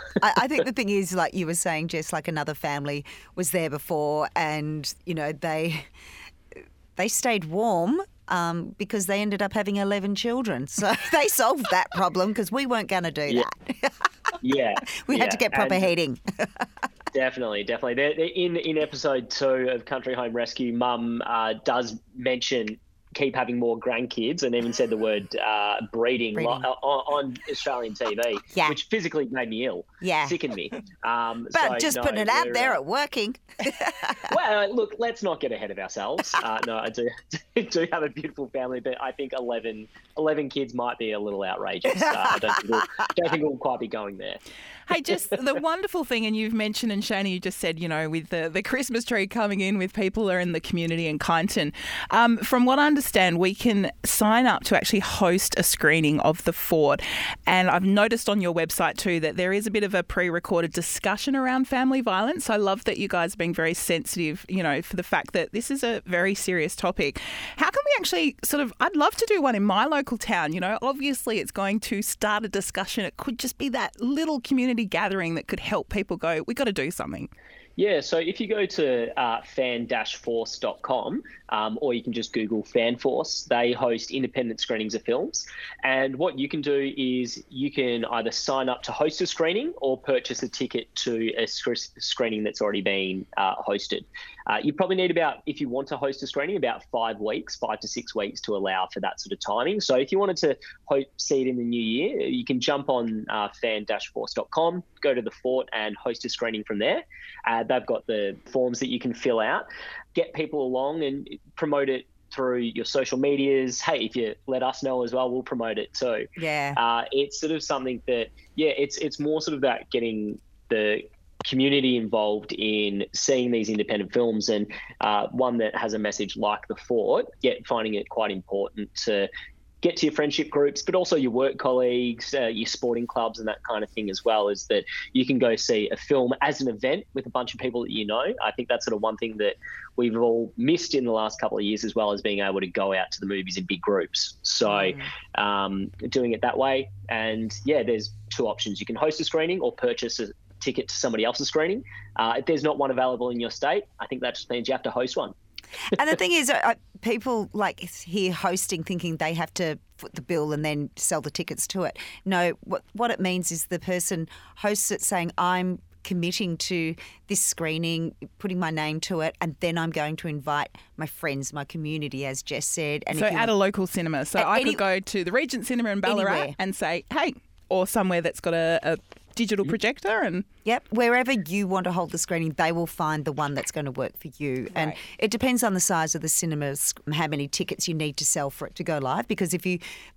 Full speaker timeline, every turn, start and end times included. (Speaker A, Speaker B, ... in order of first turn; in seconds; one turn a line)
Speaker A: 0.2-5.9
Speaker A: 7.0-14.0
Speaker B: 14.4-15.9
Speaker A: 15.0-16.7
Speaker B: 17.1-32.8
Speaker A: 26.4-26.7
Speaker A: 30.0-30.4
Speaker A: 31.5-34.3
Speaker B: 34.3-44.4
Speaker A: 41.9-43.1
Speaker C: 44.9-77.3
Speaker B: 77.8-129.3
Speaker A: 116.4-116.8
Speaker B: 129.8-155.3
Speaker A: 144.7-145.1
Speaker A: 155.9-173.5
Speaker C: 173.1-180.5
Speaker A: 174.4-174.8
Speaker A: 176.1-176.6
Speaker A: 180.7-189.8